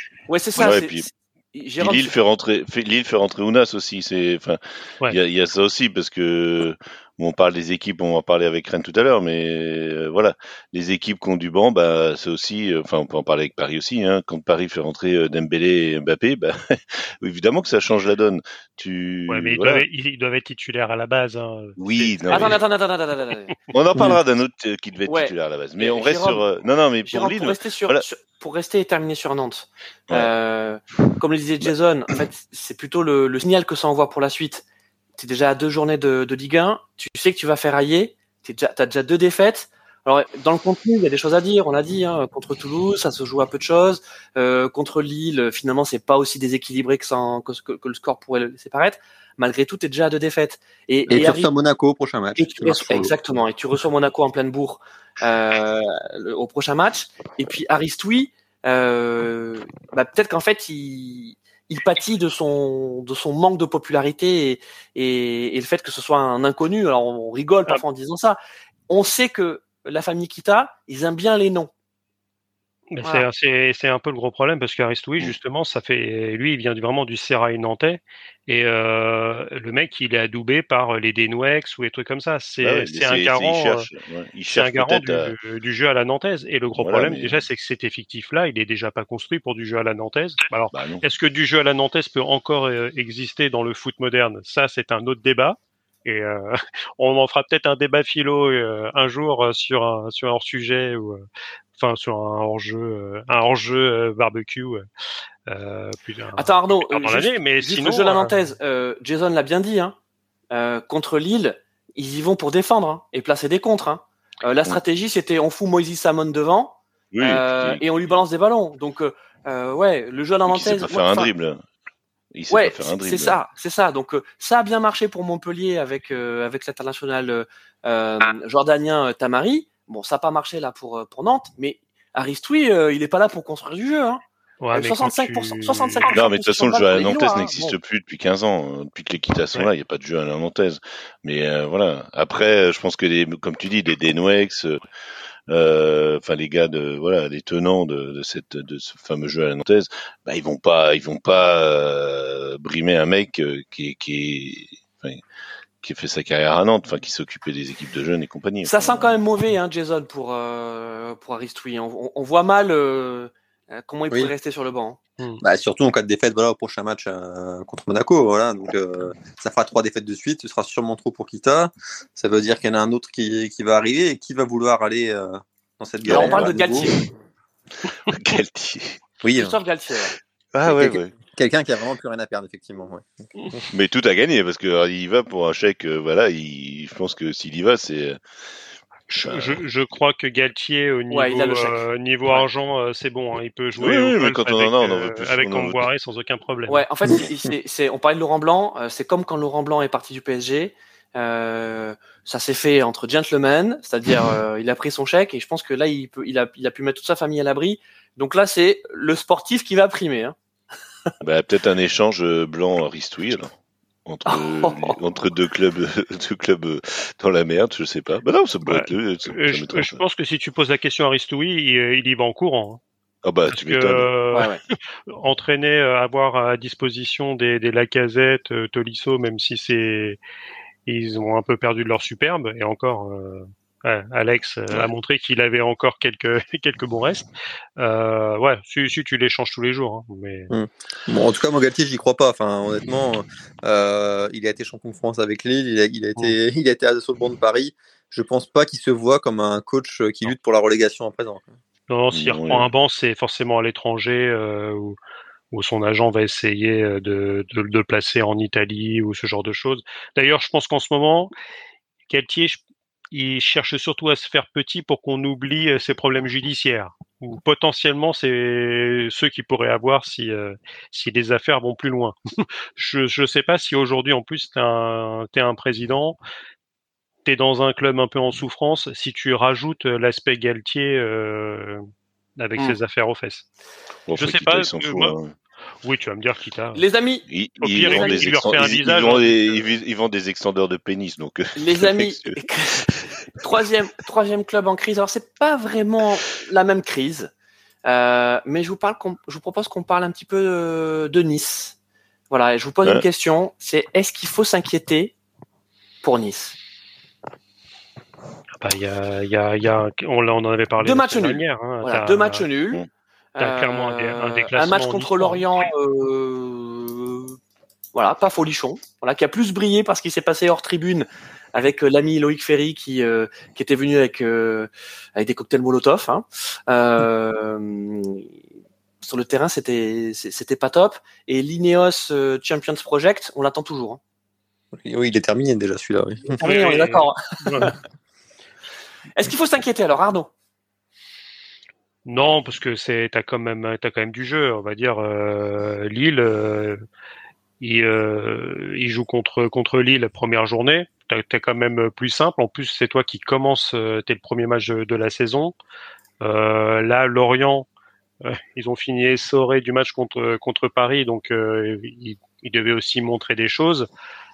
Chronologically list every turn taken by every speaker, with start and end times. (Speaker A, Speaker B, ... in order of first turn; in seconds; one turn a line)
Speaker A: 0.3-2.1
Speaker B: 0.6-1.1
Speaker B: 1.8-19.8
Speaker C: 19.3-22.6
Speaker B: 21.8-22.6
Speaker A: 22.3-23.5
Speaker B: 23.7-28.0
Speaker A: 25.1-26.4
Speaker A: 27.1-34.6
Speaker A: 35.2-51.5
Speaker D: 51.1-53.2
Speaker A: 52.4-68.4
Speaker A: 68.9-71.7
Speaker C: 72.9-83.9
Speaker B: 82.6-85.3
Speaker C: 84.5-104.8
Speaker B: 86.8-87.4
Speaker B: 90.7-91.0
Speaker C: 105.5-108.5
Speaker A: 106.4-110.0
Speaker A: 110.5-121.3
Speaker B: 117.1-118.2
Speaker B: 120.5-121.6
Speaker B: 122.3-123.4
Speaker A: 122.5-134.2
Speaker C: 134.6-136.1
Speaker A: 134.7-137.7
Speaker B: 136.1-144.8
Speaker B: 145.5-155.2
Speaker B: 155.8-159.1
Speaker A: 158.6-165.0
Speaker D: 165.4-176.9
Speaker B: 176.1-176.5
Speaker A: 176.1-177.1
Speaker B: 178.0-179.0
Speaker D: 179.2-179.6
Speaker A: 179.3-180.2
Speaker B: 180.5-181.1
Speaker D: 180.6-183.6
Speaker B: 183.7-188.2
Speaker C: 189.1-196.9
Speaker B: 189.2-189.6
Speaker A: 191.1-192.4
Speaker B: 193.8-195.8
Speaker A: 196.7-210.3
Speaker B: 211.2-213.5
Speaker B: 214.0-220.0
Speaker A: 214.3-215.0
Speaker C: 218.7-222.8
Speaker B: 223.2-224.1
Speaker C: 223.5-230.2
Speaker A: 224.3-224.6
Speaker C: 230.8-240.5
Speaker D: 240.5-251.5
Speaker C: 251.9-255.0
Speaker B: 252.1-252.7
Speaker C: 255.5-261.3
Speaker C: 262.1-262.6
Speaker C: 263.1-272.1
Speaker C: 272.8-276.2
Speaker C: 277.2-281.8
Speaker C: 282.4-283.5
Speaker B: 284.1-285.3
Speaker C: 284.1-285.1
Speaker C: 285.8-286.8
Speaker A: 286.7-287.2
Speaker B: 287.3-293.1
Speaker C: 287.6-289.6
Speaker A: 287.8-288.5
Speaker A: 291.6-297.3
Speaker A: 297.8-301.8
Speaker A: 302.3-305.1
Speaker A: 306.0-306.6
Speaker C: 308.6-312.4
Speaker A: 310.8-312.8
Speaker A: 313.4-317.4
Speaker C: 313.4-315.6
Speaker A: 317.9-328.3
Speaker A: 329.0-334.0
Speaker D: 334.8-336.4
Speaker A: 336.4-337.7
Speaker C: 336.4-337.7
Speaker A: 339.1-340.3
Speaker C: 342.1-346.8
Speaker C: 347.6-355.5
Speaker C: 356.2-357.7
Speaker C: 358.2-363.9